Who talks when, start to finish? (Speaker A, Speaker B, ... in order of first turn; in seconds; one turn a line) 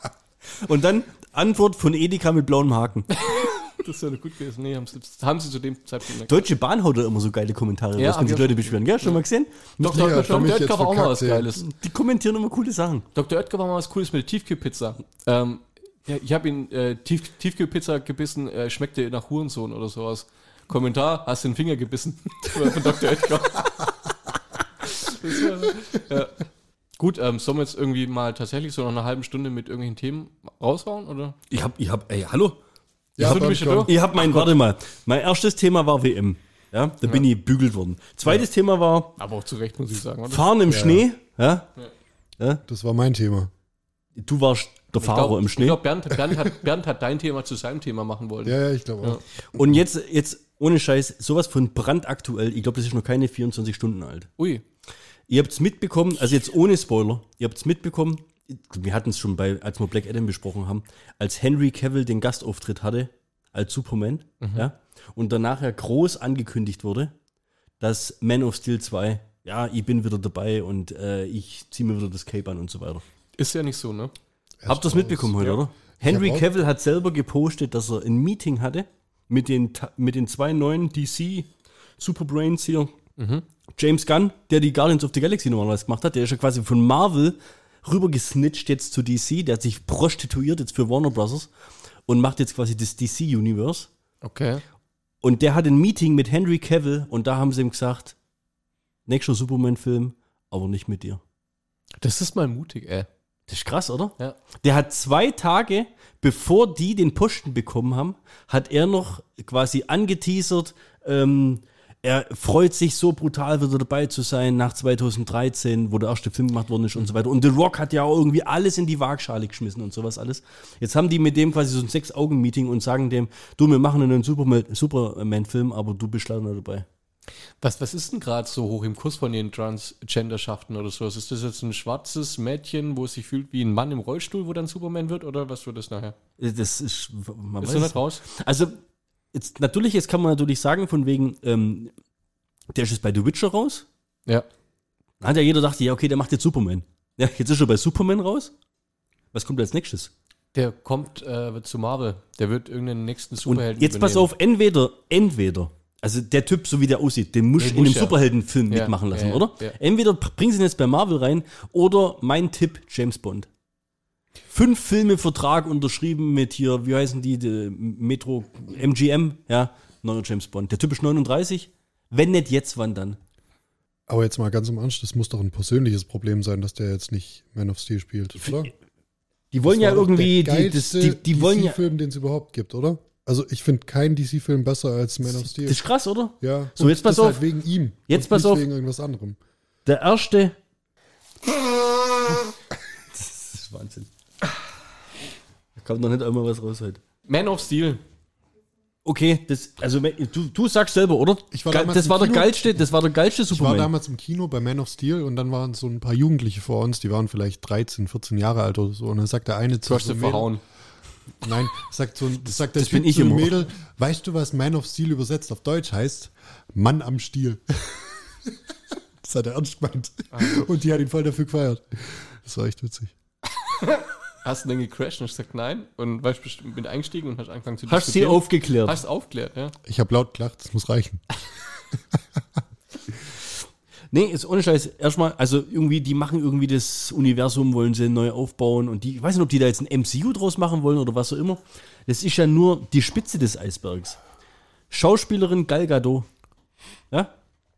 Speaker A: 0.5-3.1
Speaker B: 3.2-6.3
Speaker A: 6.3-10.6
Speaker B: 8.0-9.2
Speaker B: 9.8-11.7
Speaker C: 9.8-11.5
Speaker A: 11.6-13.1
Speaker B: 13.1-23.9
Speaker B: 24.9-26.4
Speaker B: 27.0-31.4
Speaker A: 31.5-32.6
Speaker C: 33.2-33.9
Speaker B: 33.2-34.5
Speaker A: 33.2-39.1
Speaker B: 39.2-40.5
Speaker A: 40.3-41.7
Speaker C: 40.7-41.0
Speaker C: 42.7-43.5
Speaker A: 44.1-45.8
Speaker B: 45.0-49.2
Speaker C: 48.4-49.6
Speaker A: 49.5-54.3
Speaker B: 54.4-54.6
Speaker A: 55.3-67.1
Speaker B: 64.4-64.7
Speaker A: 67.8-73.0
Speaker B: 73.4-74.1
Speaker C: 74.6-75.4
Speaker A: 74.7-81.5
Speaker C: 76.0-76.5
Speaker A: 82.0-82.9
Speaker B: 83.2-83.4
Speaker A: 83.8-91.5
Speaker A: 92.1-93.9
Speaker B: 94.2-94.6
Speaker A: 95.2-98.1
Speaker A: 99.1-101.2
Speaker B: 102.0-103.1
Speaker A: 103.5-126.8
Speaker B: 127.6-136.1
Speaker A: 136.4-138.8
Speaker B: 137.6-138.2
Speaker A: 139.3-141.9
Speaker A: 142.7-143.8
Speaker A: 145.2-148.5
Speaker A: 149.3-150.1
Speaker B: 150.5-154.3
Speaker A: 153.4-163.5
Speaker B: 157.6-158.2
Speaker B: 158.7-159.7
Speaker A: 164.5-173.2
Speaker C: 174.1-178.7
Speaker A: 179.5-181.8
Speaker C: 179.6-185.8
Speaker A: 185.2-187.4
Speaker C: 186.4-189.4
Speaker A: 188.1-188.6
Speaker A: 189.8-190.6
Speaker A: 193.1-194.1
Speaker A: 195.8-197.0
Speaker B: 197.2-198.0
Speaker A: 199.0-203.9
Speaker C: 201.5-202.7
Speaker C: 203.5-210.5
Speaker B: 209.8-210.6
Speaker C: 211.4-218.6
Speaker A: 212.6-213.6
Speaker C: 219.2-223.1
Speaker B: 220.3-220.6
Speaker B: 223.8-229.7
Speaker A: 227.9-229.0
Speaker C: 229.8-231.2
Speaker A: 234.1-244.2
Speaker A: 244.9-246.3